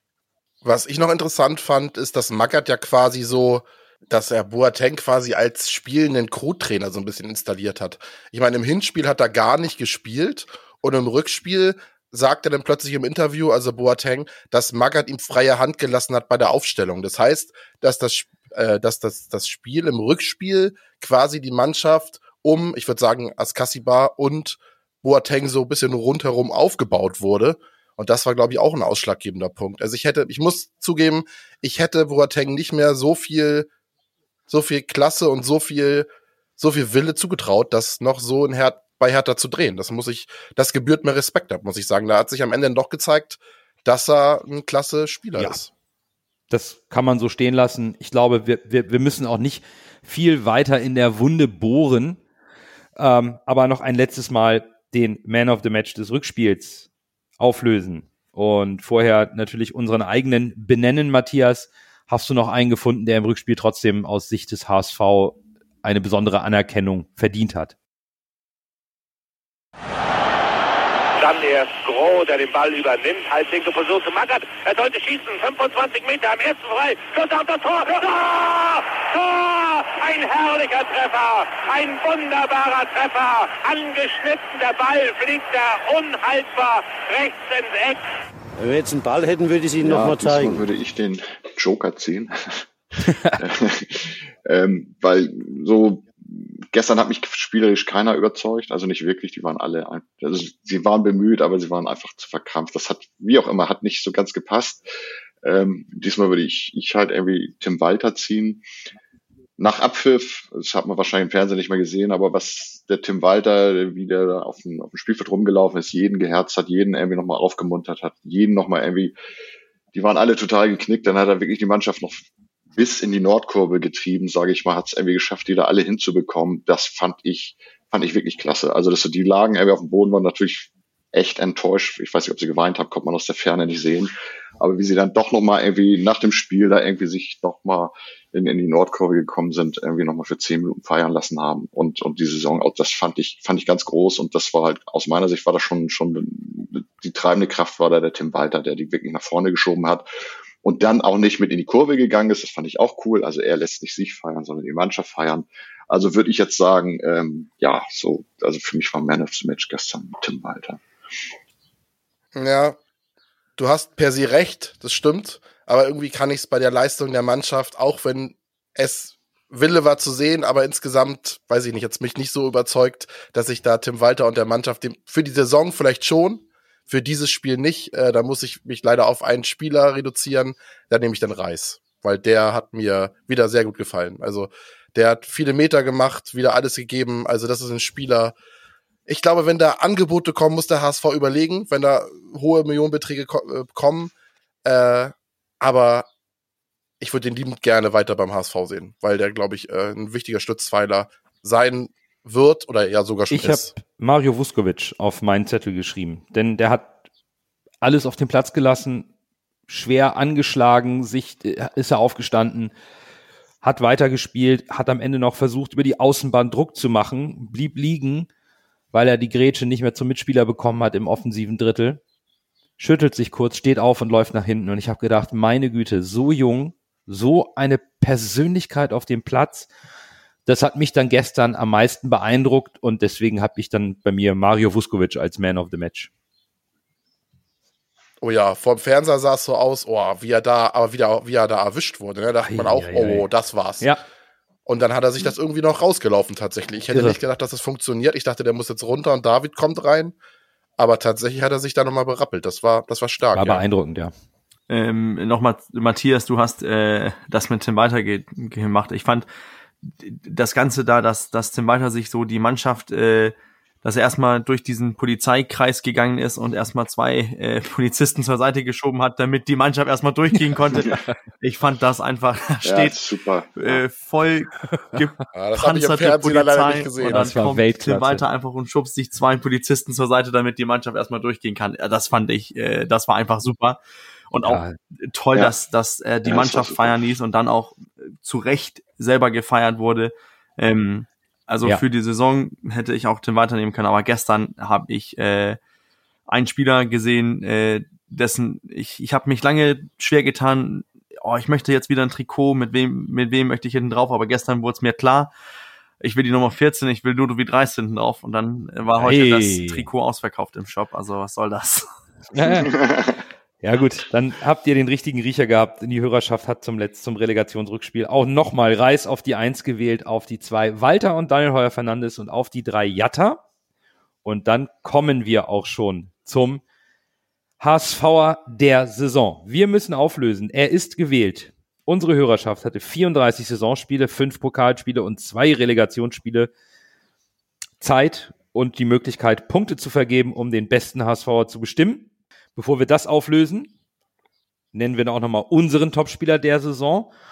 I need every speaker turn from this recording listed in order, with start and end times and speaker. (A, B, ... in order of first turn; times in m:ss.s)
0:00.6-0:33.7 A
0:34.5-0:45.7 A
0:46.5-0:52.2 B
0:53.0-0:56.9 B
0:57.4-1:07.7 B
1:11.2-1:28.0 C
1:28.6-1:30.6 D
1:29.8-1:32.6 E
1:33.1-1:33.3 B
1:33.2-1:44.8 E
1:45.4-1:48.6 E
1:49.6-1:59.1 E
1:59.9-2:30.0 E
2:30.6-2:40.8 E
2:42.3-2:42.8 A
2:43.6-3:08.4 A
3:09.1-3:14.1 A
3:14.6-3:16.1 A
3:17.0-3:23.7 A
3:23.3-3:26.9 B
3:27.8-3:29.1 B
3:29.7-3:32.7 B
3:33.6-3:38.3 B
3:38.9-3:42.0 B
3:42.8-3:49.7 B
3:50.4-3:56.1 B
3:58.2-4:03.9 A
4:02.4-4:03.3 B
4:04.6-4:10.2 A
4:06.9-4:07.2 B
4:10.8-4:13.6 A
4:13.3-4:14.1 B
4:14.7-4:19.2 F
4:19.8-4:33.0 F
4:32.6-4:33.8 E
4:33.6-4:55.6 F
4:35.3-4:37.4 A
4:37.0-4:38.2 B
4:44.4-4:44.8 B
4:46.2-4:47.0 E
4:56.3-5:05.3 F
5:06.0-5:11.9 F
5:09.0-5:09.9 B
5:12.3-5:12.8 B
5:12.6-5:13.2 E
5:13.6-5:23.4 B
5:24.2-5:26.6 B
5:27.6-5:36.5 B
5:37.8-5:43.7 B
5:44.7-5:47.1 B